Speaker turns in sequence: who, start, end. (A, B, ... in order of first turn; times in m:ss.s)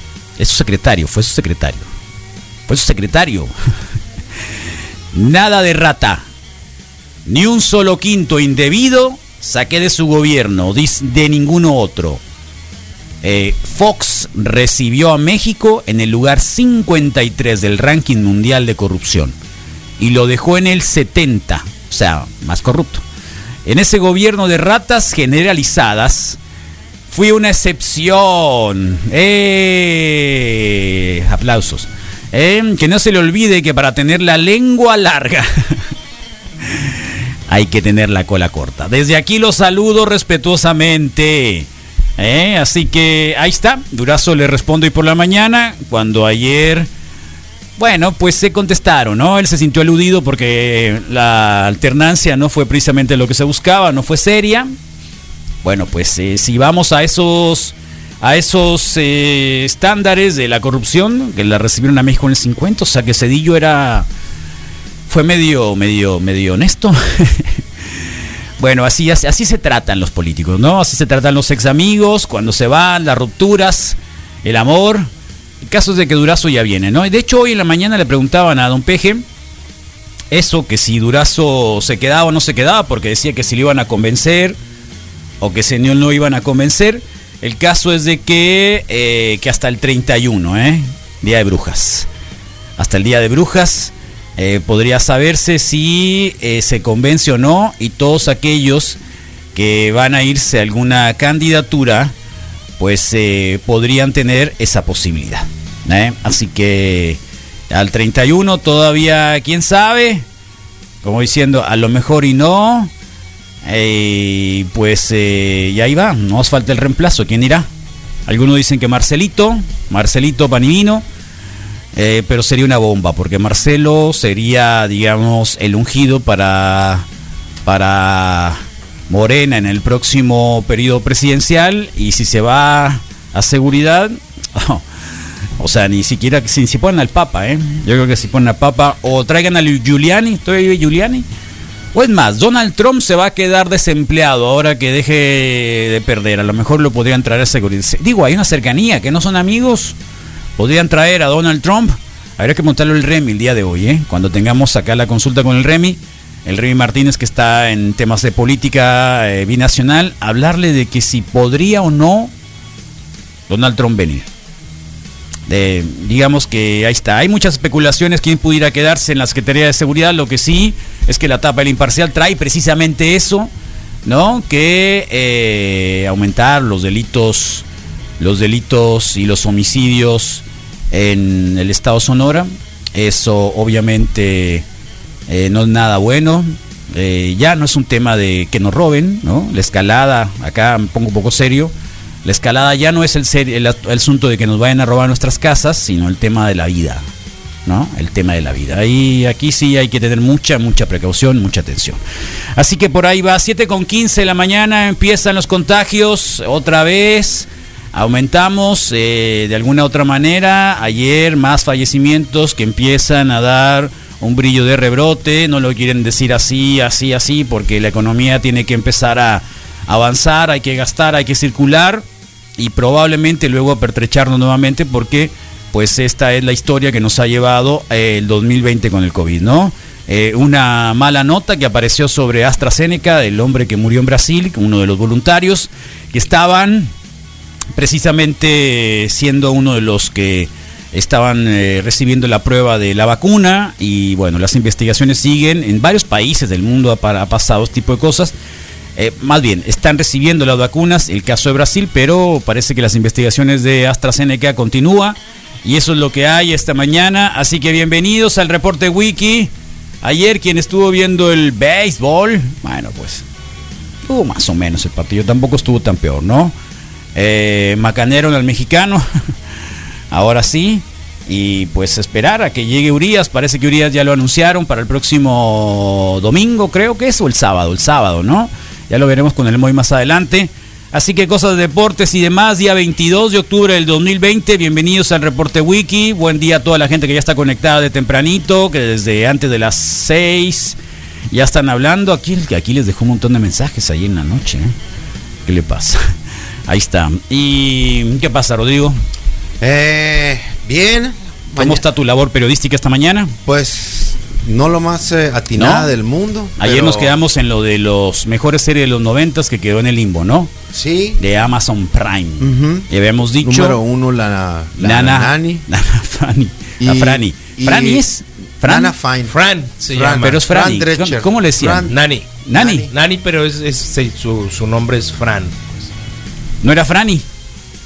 0:00.4-0:01.9 A
0:02.7-0:03.5 A
0:05.1-0:06.2 A
0:07.3-0:12.2 A
0:13.2-0:19.4 A
0:20.0-0:23.0 A
0:23.7-0:26.4 A
0:27.1-0:35.8 A
0:37.5-0:46.9 A
0:47.8-0:54.8 A
0:55.6-1:04.1 A
1:05.1-1:07.6 A
1:08.6-1:15.1 A
1:15.6-1:19.2 A
1:20.3-1:24.6 A
1:25.4-1:32.1 A
1:32.8-1:39.0 A
1:39.6-1:42.1 A
1:42.8-1:50.2 A
1:51.0-1:52.9 A
1:53.6-1:57.7 A
1:58.3-2:01.0 A
2:01.9-2:07.1 A
2:07.7-2:14.8 A
2:15.6-2:21.2 A
2:21.9-2:30.0 A
2:30.6-2:42.3 A
2:43.5-2:44.3 A
2:45.5-2:53.5 A
2:54.0-2:57.6 A
2:58.2-3:04.6 A
3:05.3-3:11.7 A
3:12.2-3:17.1 A
3:17.7-3:22.0 A
3:22.6-3:42.0 A
3:42.6-3:56.9 A
3:57.8-4:08.3 A
4:09.0-4:19.5 A
4:20.0-4:23.2 A
4:24.1-4:26.6 A
4:27.2-4:29.0 A
4:30.1-4:50.8 A
4:51.3-4:54.7 A
4:55.5-4:56.0 A
4:56.7-4:59.0 A
4:59.6-5:01.8 B
5:01.6-5:03.4 A
5:03.4-5:07.2 B
5:05.6-5:05.9 A
5:06.6-5:10.5 A
5:10.7-5:11.2 B
5:11.2-5:13.8 A
5:12.4-5:12.9 B
5:13.4-5:15.6 B
5:14.8-5:19.0 A
5:16.8-5:18.0 B
5:18.6-5:19.4 B
5:19.3-5:20.4 C
5:19.9-5:22.0 B
5:20.2-5:21.9 A
5:21.9-5:25.9 C
5:22.4-5:22.9 A
5:22.6-5:22.9 B
5:26.6-5:27.2 A